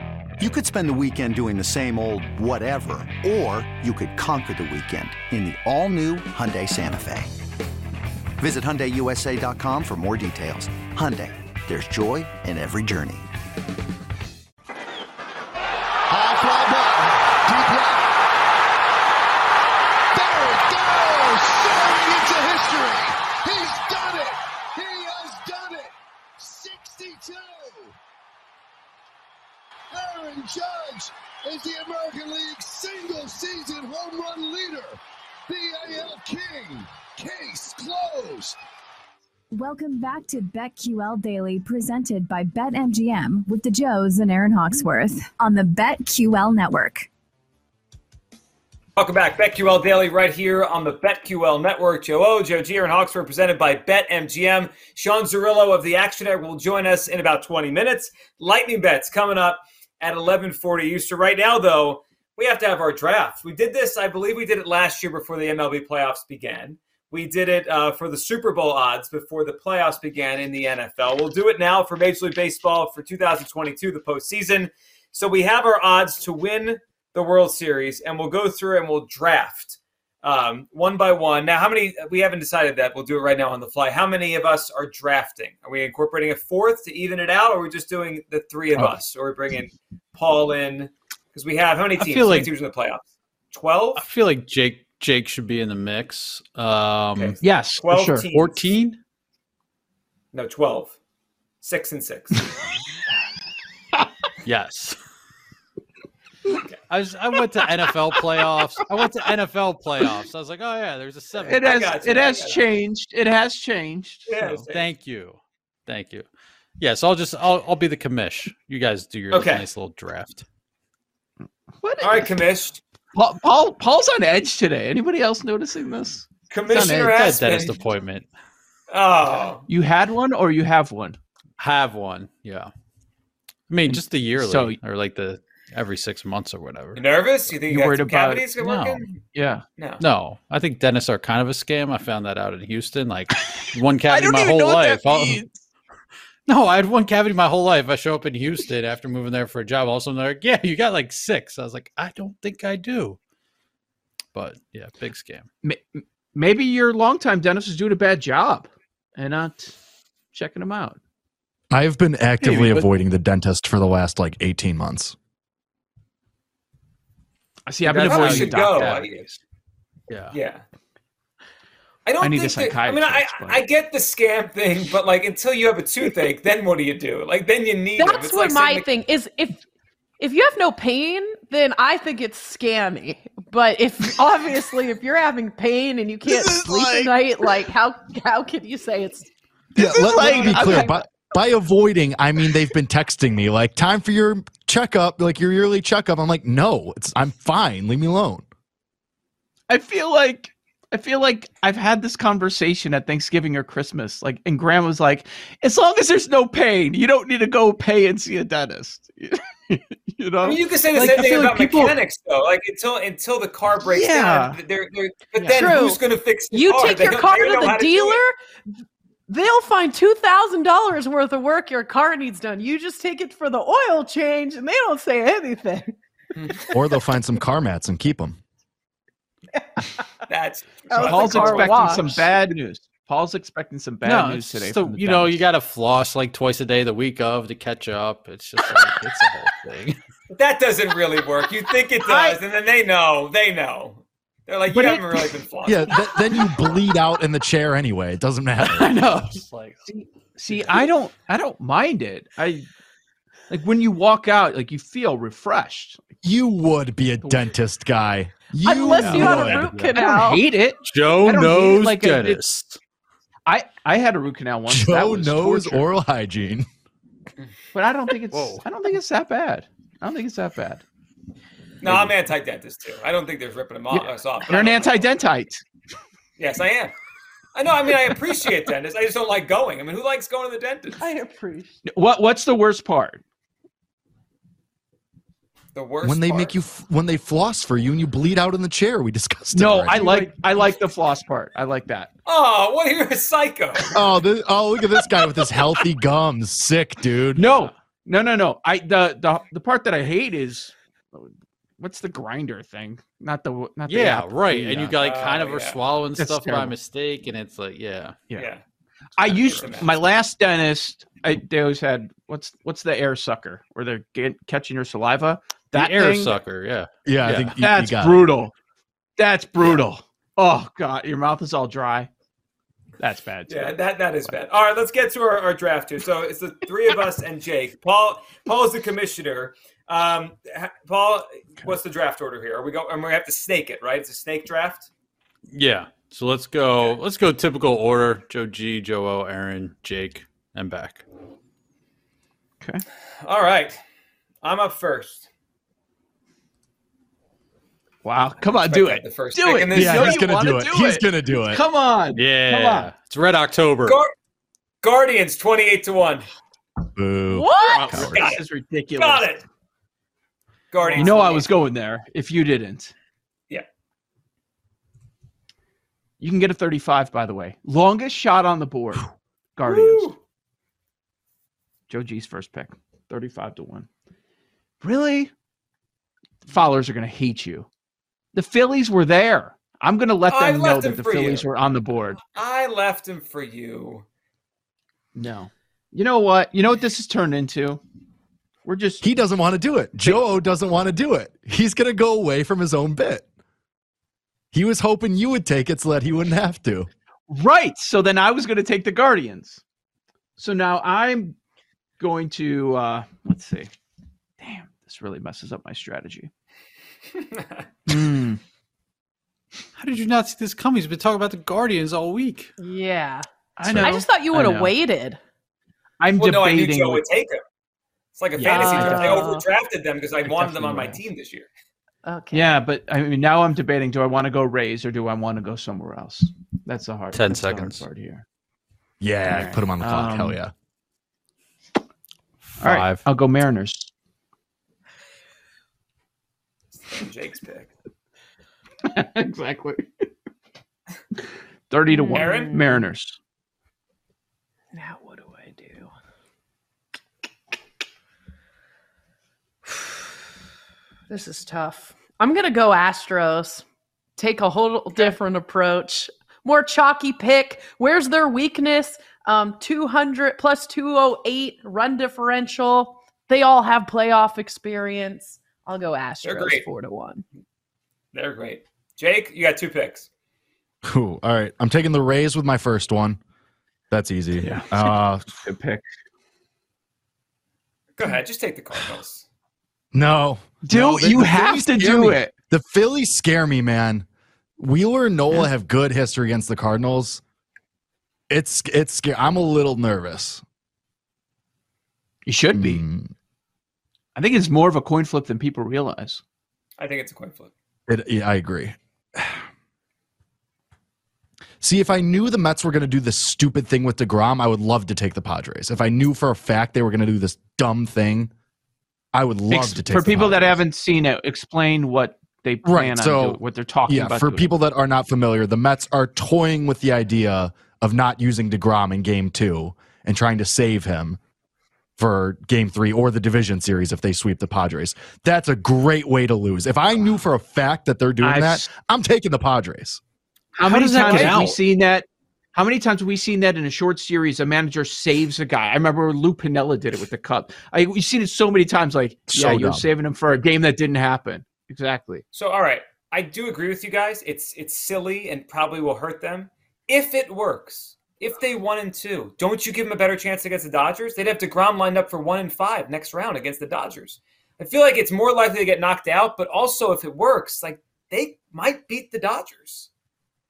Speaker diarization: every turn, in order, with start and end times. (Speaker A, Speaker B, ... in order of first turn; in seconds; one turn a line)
Speaker A: 0.4-7.3
Speaker A: 8.4-13.3
Speaker B: 16.1-18.1
Speaker B: 20.1-27.9
Speaker B: 29.9-38.6
Speaker C: 39.5-47.1
Speaker D: 49.0-94.0
Speaker E: 92.0-92.5
Speaker E: 94.0-97.4
Speaker D: 97.1-98.7
Speaker F: 97.4-98.3
Speaker E: 98.3-99.0
Speaker D: 100.3-100.9
Speaker D: 101.6-102.4
Speaker E: 104.4-105.0
Speaker E: 106.9-111.7
Speaker F: 111.4-114.6
Speaker D: 111.6-112.7
Speaker D: 114.3-114.8
Speaker E: 114.7-116.3
Speaker E: 116.8-120.4
Speaker D: 119.3-119.6
Speaker F: 121.8-122.4
Speaker D: 122.0-122.8
Speaker F: 123.1-127.1
Speaker D: 126.5-127.7
Speaker E: 127.1-128.3
Speaker D: 128.9-129.6
Speaker F: 129.7-131.2
Speaker E: 131.6-132.7
Speaker E: 133.7-137.1
Speaker F: 133.9-134.8
Speaker D: 136.9-139.2
Speaker F: 137.7-138.6
Speaker E: 138.6-139.1
Speaker F: 139.3-139.6
Speaker D: 139.8-140.0
Speaker E: 140.0-145.4
Speaker F: 144.1-145.6
Speaker E: 146.5-153.2
Speaker E: 154.3-155.4
Speaker F: 155.6-159.7
Speaker F: 160.3-161.0
Speaker G: 161.7-165.2
Speaker F: 162.4-162.9
Speaker F: 167.7-169.4
Speaker E: 167.9-168.3
Speaker D: 167.9-169.2
Speaker E: 170.1-170.4
Speaker D: 170.3-170.6
Speaker D: 172.1-178.9
Speaker F: 172.2-173.6
Speaker H: 178.0-179.6
Speaker H: 180.2-189.3
Speaker F: 186.2-187.5
Speaker F: 189.7-191.1
Speaker G: 189.8-198.4
Speaker D: 190.2-190.8
Speaker F: 199.7-212.0
Speaker D: 210.4-218.2
Speaker F: 213.8-214.6
Speaker F: 215.3-215.7
Speaker H: 215.6-218.3
Speaker H: 219.3-225.9
Speaker G: 226.7-228.4
Speaker D: 230.3-231.9
Speaker H: 230.9-232.2
Speaker F: 230.9-235.4
Speaker E: 234.0-240.0
Speaker D: 240.3-246.3
Speaker F: 242.1-242.4
Speaker F: 244.7-245.2
Speaker G: 245.6-248.9
Speaker F: 248.6-252.7
Speaker E: 248.9-249.8
Speaker E: 250.5-250.8
Speaker F: 253.5-256.0
Speaker G: 256.2-259.8
Speaker F: 257.2-257.5
Speaker H: 258.6-260.4
Speaker E: 259.0-259.7
Speaker F: 259.0-262.4
Speaker E: 260.9-262.8
Speaker F: 263.4-265.9
Speaker G: 264.7-266.7
Speaker F: 267.7-270.8
Speaker E: 268.3-268.6
Speaker D: 271.8-275.0
Speaker F: 273.9-275.6
Speaker D: 276.4-276.9
Speaker D: 277.5-281.0
Speaker H: 281.0-281.8
Speaker F: 281.8-283.2
Speaker D: 285.7-286.6
Speaker G: 286.0-290.1
Speaker F: 289.5-292.1
Speaker D: 292.2-293.9
Speaker G: 293.9-297.5
Speaker F: 297.3-305.0
Speaker E: 303.9-308.2
Speaker D: 305.0-305.8
Speaker F: 306.2-306.8
Speaker D: 308.4-308.6
Speaker F: 309.2-316.4
Speaker D: 309.2-309.9
Speaker E: 315.7-317.6
Speaker G: 317.1-318.3
Speaker F: 317.6-318.5
Speaker F: 319.2-322.1
Speaker F: 323.0-323.7
Speaker D: 323.5-334.9
Speaker E: 335.5-341.0
Speaker D: 343.2-343.8
Speaker D: 344.4-345.3
Speaker F: 348.0-352.9
Speaker D: 348.6-350.2
Speaker G: 349.7-351.6
Speaker E: 352.1-354.0
Speaker D: 354.8-356.2
Speaker G: 356.9-358.3
Speaker H: 357.3-357.9
Speaker F: 357.6-359.3
Speaker D: 357.9-358.4
Speaker D: 358.9-359.4
Speaker D: 360.7-361.5
Speaker F: 360.9-362.9
Speaker F: 366.2-370.1
Speaker D: 369.6-370.2
Speaker F: 371.9-373.9
Speaker F: 374.8-375.3
Speaker F: 376.4-377.7
Speaker F: 378.3-382.2
Speaker D: 380.3-381.4
Speaker D: 382.3-384.0
Speaker F: 385.1-387.8
Speaker F: 388.6-389.0
Speaker G: 389.0-393.2
Speaker G: 394.5-396.9
Speaker F: 397.3-399.6
Speaker F: 400.4-401.4
Speaker F: 402.0-403.7
Speaker F: 404.4-406.3
Speaker D: 407.1-407.6
Speaker F: 407.9-408.4
Speaker E: 409.8-412.5
Speaker H: 412.6-415.2
Speaker F: 413.6-414.7
Speaker F: 416.0-417.0
Speaker D: 416.2-417.4
Speaker D: 418.1-421.5
Speaker F: 418.3-419.3
Speaker H: 418.4-419.5
Speaker F: 420.2-421.1
Speaker H: 422.0-422.6
Speaker F: 422.3-428.2
Speaker E: 427.1-427.8
Speaker G: 429.0-430.5
Speaker F: 429.2-430.4
Speaker E: 432.4-433.0
Speaker F: 432.6-433.9
Speaker D: 436.7-437.7
Speaker F: 438.9-440.0
Speaker F: 441.7-443.1
Speaker H: 441.9-442.8
Speaker D: 442.1-442.5
Speaker H: 444.7-445.9
Speaker H: 449.7-450.0
Speaker H: 451.1-453.6
Speaker H: 454.2-467.2
Speaker D: 466.2-466.6
Speaker D: 468.1-470.1
Speaker G: 470.8-473.2
Speaker G: 473.9-475.2
Speaker F: 474.4-475.8
Speaker D: 477.9-479.2
Speaker G: 479.9-484.1
Speaker F: 480.6-482.3
Speaker G: 484.6-487.2
Speaker G: 488.3-490.4
Speaker F: 492.2-492.8
Speaker G: 492.5-493.1
Speaker F: 494.1-496.2
Speaker D: 496.8-497.5
Speaker G: 497.9-499.4
Speaker G: 501.6-508.3
Speaker G: 509.1-510.6
Speaker F: 509.5-514.6
Speaker G: 512.6-521.2
Speaker G: 522.0-530.0
Speaker F: 528.2-528.7
Speaker F: 530.6-542.2
Speaker E: 530.6-531.6
Speaker G: 531.1-531.4
Speaker G: 539.3-539.9
Speaker D: 542.3-559.9